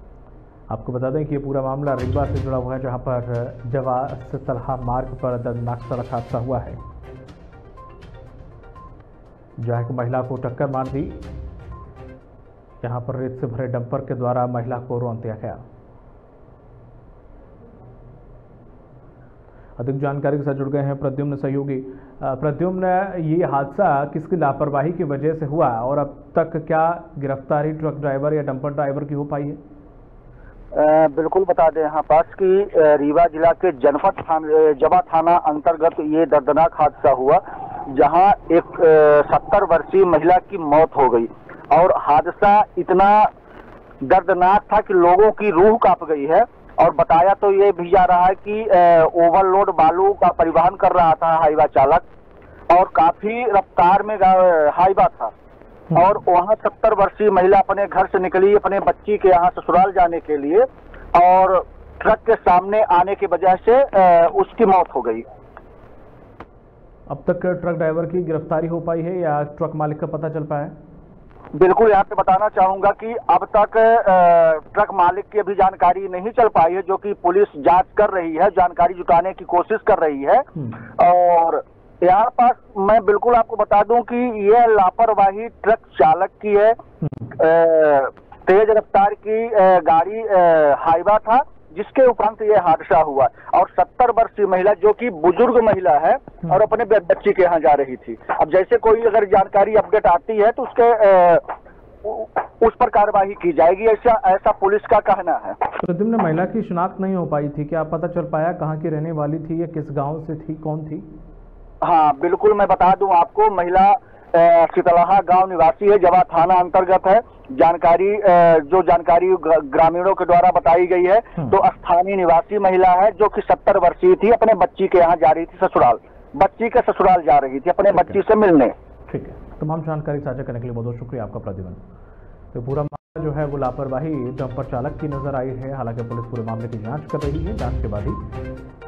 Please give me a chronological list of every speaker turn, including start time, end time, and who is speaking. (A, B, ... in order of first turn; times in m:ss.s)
0:00.7-0:06.8 A
0:09.6-0:11.2 A
0:12.8-0:15.6 A
0:19.8-0:29.6 A
0:30.7-0:43.3 B
0:44.0-0:52.0 B
0:52.7-0:55.3 B
0:56.0-1:05.2 B
1:07.1-1:10.7 A
1:11.6-1:26.8 B
1:27.3-1:41.5 B
1:42.0-1:45.6 B
1:45.8-1:51.1 A
1:51.8-2:08.7 B
2:09.1-2:11.8 A
2:12.5-2:18.2 A